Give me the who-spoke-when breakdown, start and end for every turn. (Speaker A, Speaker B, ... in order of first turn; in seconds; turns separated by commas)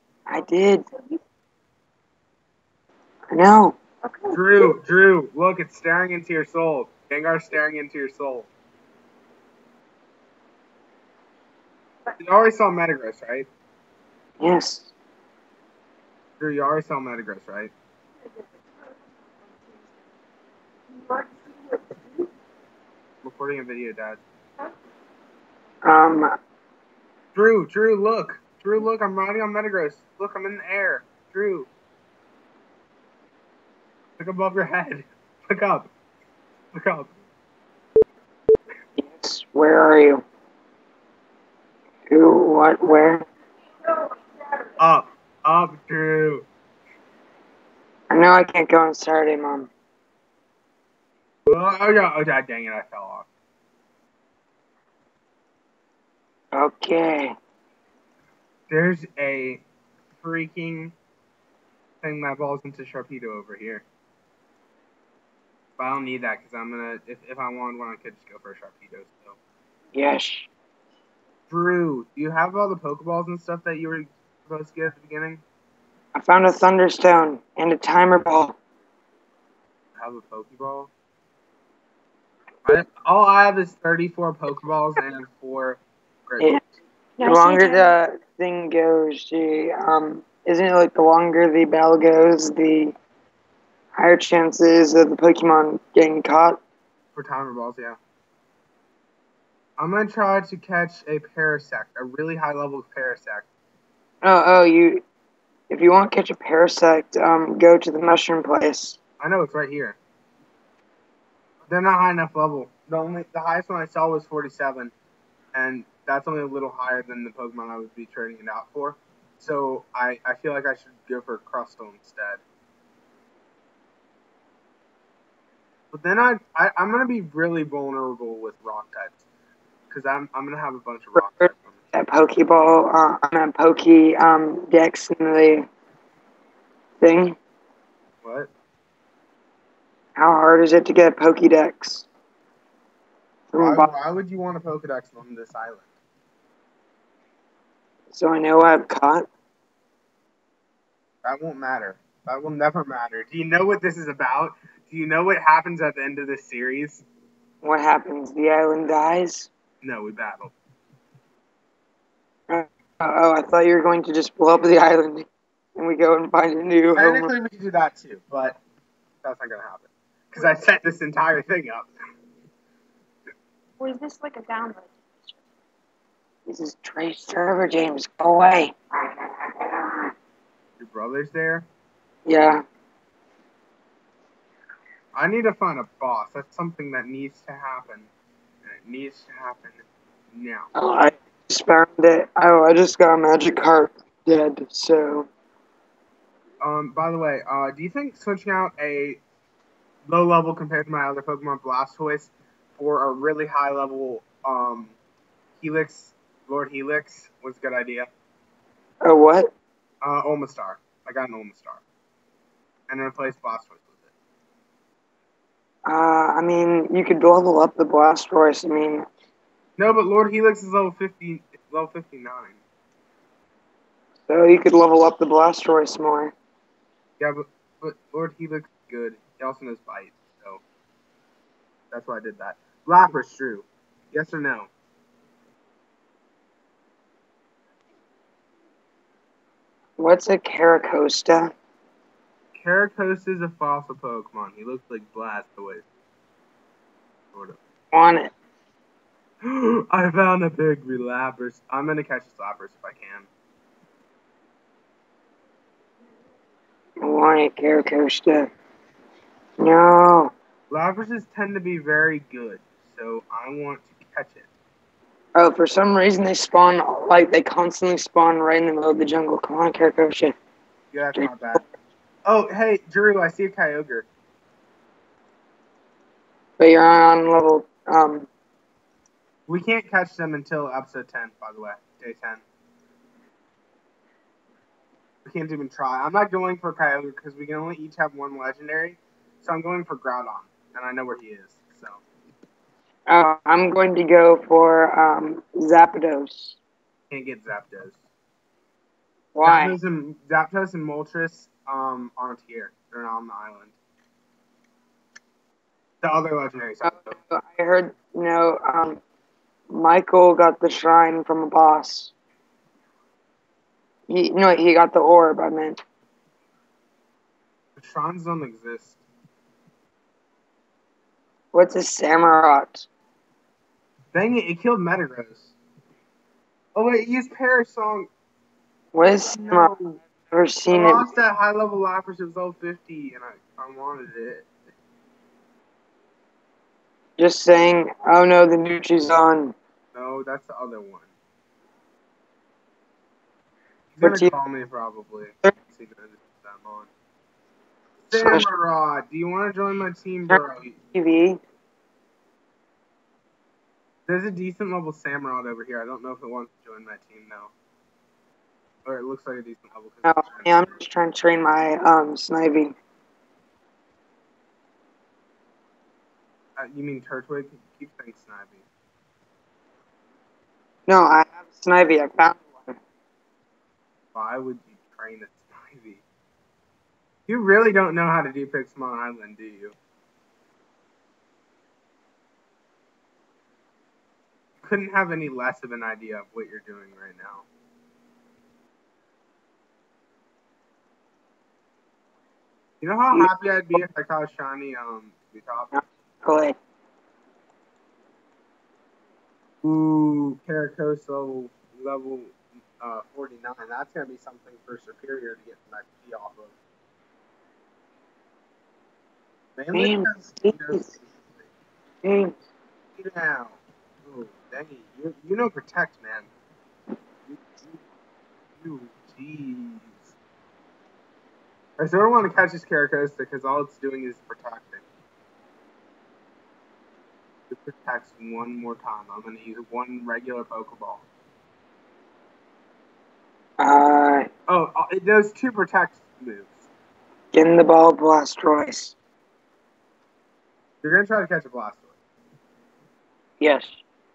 Speaker A: 0.3-0.8, Speaker A: 3.3-3.8, Speaker B: 4.3-8.5, Speaker B: 12.2-13.5, Speaker A: 14.4-14.9, Speaker B: 16.4-17.7, Speaker C: 19.4-19.9, Speaker B: 23.2-24.2, Speaker A: 25.8-26.3, Speaker B: 27.3-31.7, Speaker B: 34.2-35.9, Speaker B: 36.7-37.1, Speaker A: 39.0-40.2, Speaker A: 42.1-43.2, Speaker B: 44.8-46.5, Speaker A: 48.1-49.7, Speaker B: 51.5-53.3, Speaker A: 56.5-57.4, Speaker B: 58.7-59.6, Speaker B: 60.2-60.9, Speaker B: 62.0-63.8, Speaker B: 65.8-69.4, Speaker A: 69.9-70.5, Speaker B: 71.5-75.4, Speaker A: 76.1-78.5, Speaker B: 80.0-80.9, Speaker B: 82.6-86.6, Speaker A: 87.2-92.9, Speaker C: 87.2-87.9, Speaker A: 94.0-96.6, Speaker B: 97.1-98.0, Speaker B: 99.8-103.5, Speaker A: 104.2-105.0, Speaker A: 105.7-109.0, Speaker B: 109.2-110.0, Speaker B: 111.7-114.9, Speaker B: 115.5-122.4, Speaker B: 125.9-129.2, Speaker B: 129.9-131.9, Speaker A: 131.2-135.7, Speaker A: 137.0-137.4, Speaker B: 138.2-138.5, Speaker A: 140.2-142.1, Speaker A: 143.5-143.9, Speaker B: 143.6-145.9, Speaker A: 148.1-149.3, Speaker B: 151.2-157.0, Speaker A: 157.6-159.5, Speaker B: 159.8-160.5, Speaker A: 162.5-167.3, Speaker B: 166.9-168.6, Speaker B: 169.2-171.9, Speaker C: 173.8-175.3, Speaker A: 176.5-178.8, Speaker A: 179.5-180.0, Speaker B: 180.8-181.7, Speaker A: 182.2-182.6, Speaker B: 185.1-188.1, Speaker B: 188.6-190.7, Speaker A: 190.7-195.3, Speaker B: 196.6-199.2, Speaker B: 200.1-205.0, Speaker B: 205.6-208.1, Speaker A: 209.0-209.5, Speaker B: 210.0-211.8, Speaker B: 212.9-214.1, Speaker A: 215.8-219.0, Speaker B: 219.8-222.6, Speaker A: 224.3-226.3, Speaker B: 227.2-230.6, Speaker B: 231.9-234.7, Speaker A: 240.0-241.5, Speaker B: 242.5-245.9, Speaker B: 247.3-247.6, Speaker A: 247.9-248.3, Speaker B: 249.4-253.3, Speaker A: 257.0-258.5, Speaker A: 259.6-260.3, Speaker B: 260.7-264.5, Speaker A: 265.4-270.4, Speaker B: 270.9-271.6, Speaker A: 271.1-271.6, Speaker B: 272.2-274.1, Speaker A: 276.6-278.3, Speaker B: 279.5-282.4, Speaker B: 285.2-292.0, Speaker A: 293.1-296.6, Speaker B: 297.1-298.0, Speaker A: 299.3-299.8, Speaker B: 299.4-303.8, Speaker B: 306.0-307.1, Speaker A: 306.8-309.0, Speaker A: 309.7-312.1, Speaker A: 314.1-315.8, Speaker B: 317.8-319.0, Speaker A: 321.5-322.9, Speaker B: 324.1-325.5, Speaker B: 326.7-328.1, Speaker A: 328.9-331.1, Speaker B: 329.2-330.0, Speaker B: 330.7-334.5, Speaker A: 337.2-339.5, Speaker B: 339.9-341.1, Speaker B: 343.9-346.9, Speaker A: 344.0-344.3, Speaker B: 348.0-350.8, Speaker A: 348.1-348.5, Speaker A: 350.9-351.4, Speaker B: 354.1-357.5, Speaker B: 358.8-360.7, Speaker A: 360.0-362.8, Speaker B: 366.6-368.6, Speaker A: 370.9-372.8, Speaker B: 374.1-376.0, Speaker B: 377.3-379.8, Speaker B: 384.6-387.5, Speaker B: 392.8-395.7, Speaker A: 393.1-393.8, Speaker A: 395.7-396.6, Speaker B: 399.6-406.5, Speaker B: 409.6-411.5, Speaker A: 409.7-410.9, Speaker A: 412.0-412.4, Speaker B: 412.9-416.3, Speaker B: 417.3-417.8, Speaker B: 418.6-420.1, Speaker B: 421.8-424.8, Speaker B: 427.5-431.1, Speaker A: 433.6-434.3, Speaker B: 434.5-436.7, Speaker A: 437.3-438.9, Speaker B: 440.8-442.0, Speaker A: 443.4-443.8